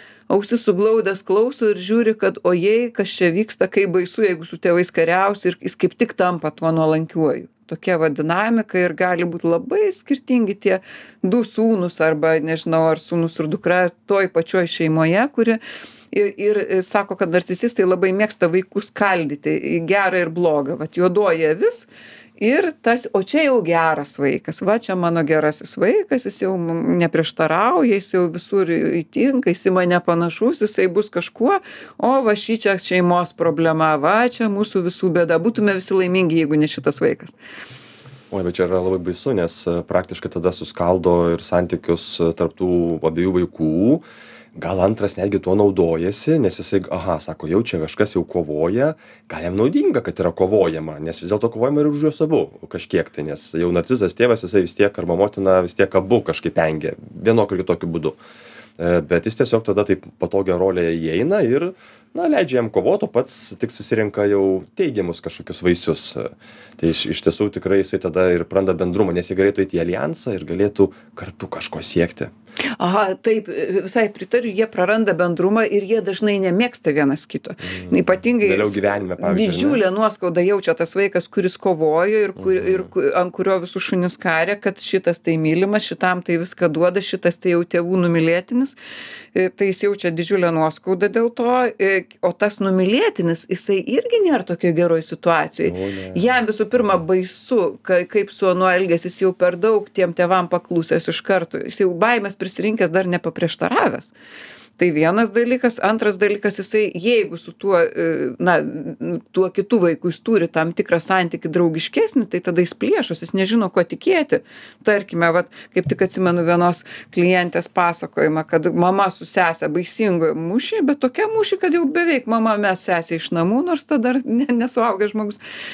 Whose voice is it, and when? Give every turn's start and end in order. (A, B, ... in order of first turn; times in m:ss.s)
0:00.3-0:15.6 A
0:16.1-0:21.9 A
0:22.4-0:37.4 A
0:38.3-0:58.2 B
0:58.8-1:12.3 B
1:12.8-1:28.8 A
1:17.7-1:19.8 B
1:22.4-1:22.9 B
1:29.3-1:44.1 A
1:35.6-1:36.4 B
1:44.8-2:05.4 A